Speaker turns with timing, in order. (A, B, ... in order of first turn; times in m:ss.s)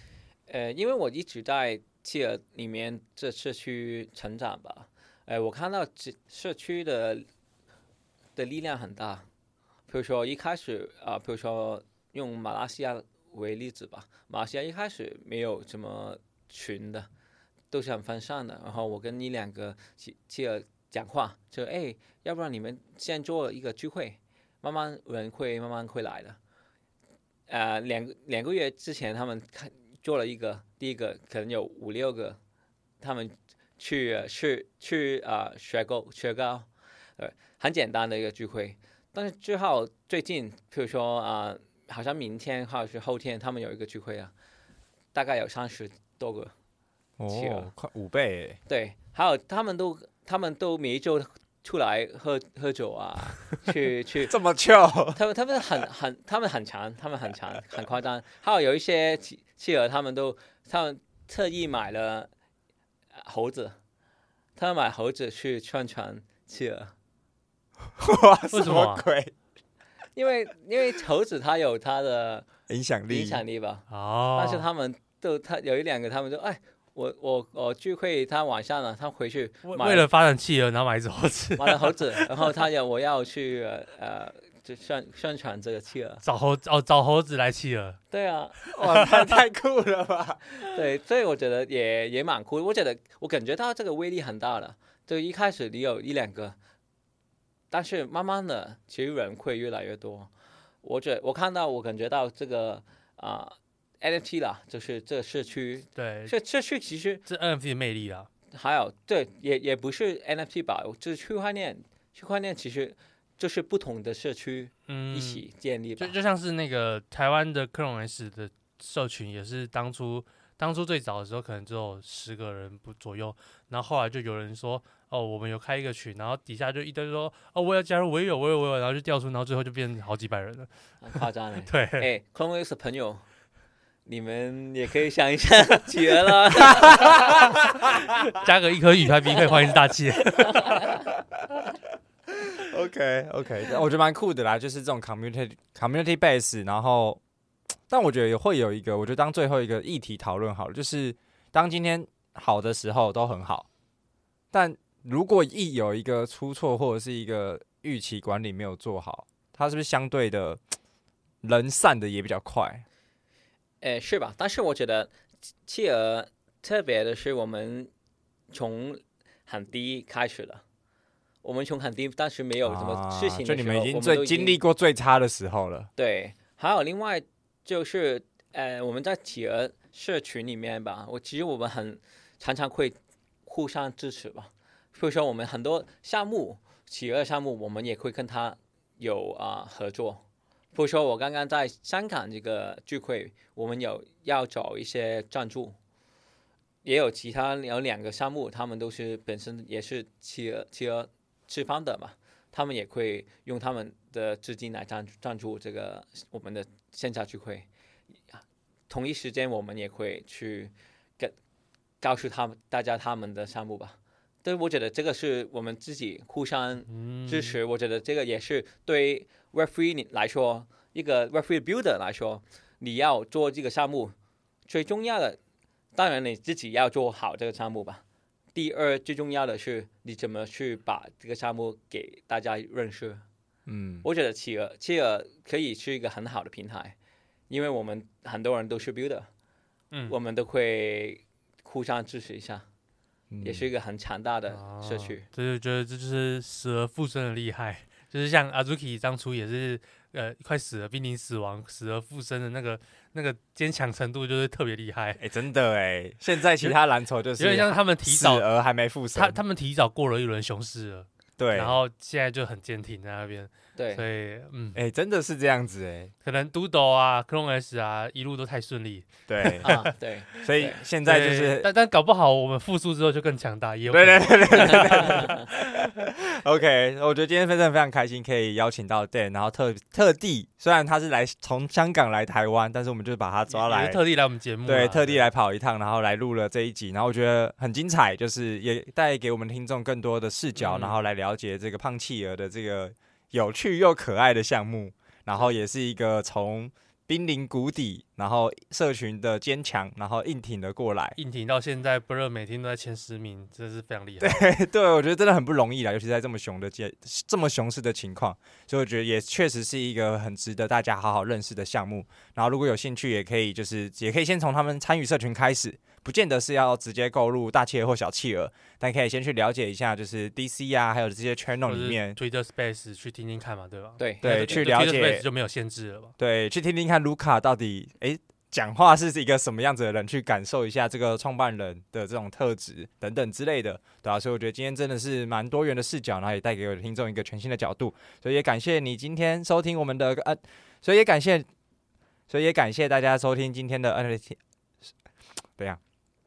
0:00.5-0:07.2 A
0:08.4-0:09.2 A
0:09.9-0:17.1 A
0:17.7-0:26.4 A
0:27.5-0:32.4 A
0:33.0-0:44.3 A
0:45.1-0:46.5 A
0:47.2-0:48.6 B
0:47.3-0:47.7 A
0:48.7-0:54.4 A
0:54.3-0:55.2 B
0:55.1-1:02.3 A
1:03.2-1:03.8 A
1:04.6-1:06.9 A
1:08.0-1:09.3 B
1:08.5-1:09.0 C
1:10.1-1:12.5 A
1:12.7-1:13.4 B
1:13.1-1:20.1 A
1:13.9-1:14.6 C
1:19.6-1:22.4 C
1:21.6-1:26.2 A
1:26.2-1:28.0 C
1:28.1-1:28.6 A
1:28.6-1:29.3 C
1:28.7-1:30.6 B
1:30.6-1:36.6 A
1:37.7-1:40.3 A
1:40.8-1:47.2 A
1:46.0-1:46.3 C
1:47.2-1:48.3 C
1:48.5-1:56.1 A
1:54.9-1:55.4 C
1:56.0-2:12.1 C
2:11.0-2:13.2 A
2:14.0-2:17.4 A
2:18.0-2:20.8 C
2:20.3-2:21.1 A
2:22.6-2:27.2 B
2:27.9-2:33.7 B
2:34.5-2:40.6 B
2:41.4-2:42.8 B
2:43.8-2:45.1 A
2:45.6-2:47.9 A
2:48.5-2:50.6 A
2:51.4-2:54.6 A
2:52.6-2:55.9 B
2:56.0-3:10.2 A
3:10.7-3:15.8 A
3:16.8-3:27.7 A
3:28.9-3:31.3 A
3:32.0-3:44.1 A
3:36.9-3:37.6 C
3:44.7-3:45.4 A
3:45.9-3:48.0 A
3:48.5-3:53.2 A
3:53.7-3:54.0 B
3:54.0-3:56.9 A
3:57.5-3:59.3 A
4:00.1-4:02.6 A
4:03.3-4:03.7 B
4:03.4-4:05.2 A
4:04.5-4:15.2 C
4:15.2-4:19.4 B
4:17.4-4:18.5 C
4:19.1-4:24.8 C
4:21.4-4:21.8 B
4:23.8-4:24.0 A
4:24.7-4:26.1 B
4:26.2-4:29.8 C
4:29.3-4:31.7 B
4:29.6-4:30.8 A
4:31.0-4:35.8 C
4:33.9-4:44.0 B
4:34.5-4:35.4 A
4:43.5-4:45.3 C
4:44.6-5:01.2 B
4:50.6-4:51.0 C
5:01.2-5:04.5 C
5:04.2-5:22.2 B
5:21.6-5:26.1 C
5:24.0-5:24.7 A
5:24.2-5:25.2 B
5:26.2-5:41.5 B
5:42.3-5:44.9 B